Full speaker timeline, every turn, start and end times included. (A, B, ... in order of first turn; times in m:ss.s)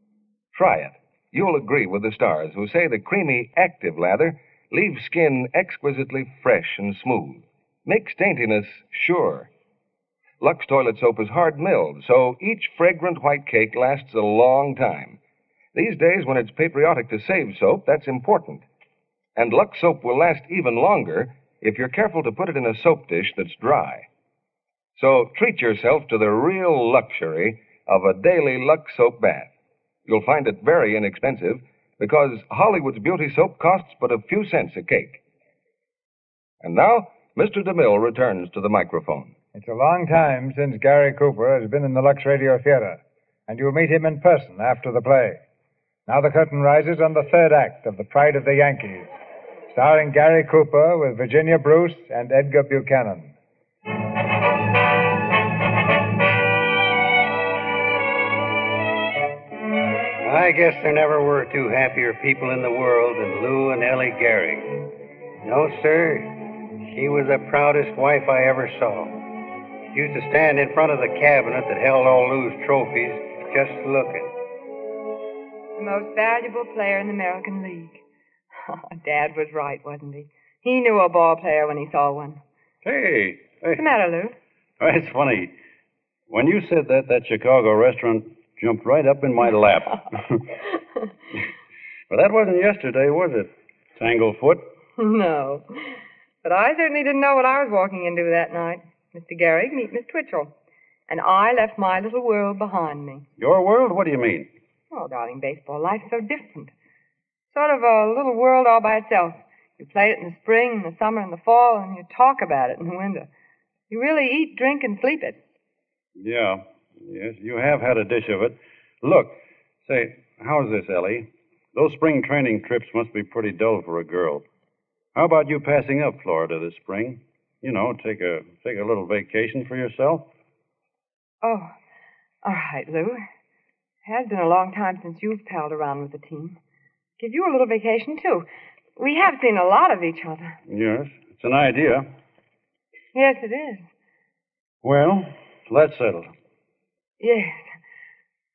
0:00.5-0:09.5 A
0:10.4-0:15.2 A
0:15.7-0:18.6 A
0:19.4-0:24.1 A
0:25.0-0:29.5 A
0:30.0-0:35.2 A
0:36.6-0:39.3 A
0:39.5-0:45.4 B
0:46.1-0:49.1 B
0:49.7-0:53.3 B
1:00.2-1:04.7 C
1:05.4-1:09.2 C
1:09.9-1:14.3 C
1:15.8-1:18.0 D
1:18.6-1:22.4 D
1:22.8-1:23.8 E
1:23.8-1:24.3 D
1:24.8-1:25.5 E
1:26.3-1:30.4 E
1:32.1-1:34.7 E
1:35.0-1:40.5 D
1:41.1-1:43.2 D
1:43.4-1:44.5 E
1:44.9-1:46.7 D
1:47.5-1:53.3 D
1:53.9-1:55.4 D
1:56.2-2:04.4 E
2:05.1-2:10.3 E
2:11.4-2:11.7 D
2:12.4-2:13.2 D
2:14.0-2:16.6 D
2:17.2-2:20.6 D
2:20.7-2:22.1 E
2:23.1-2:23.8 D
2:24.8-2:26.3 E
2:27.2-2:27.7 D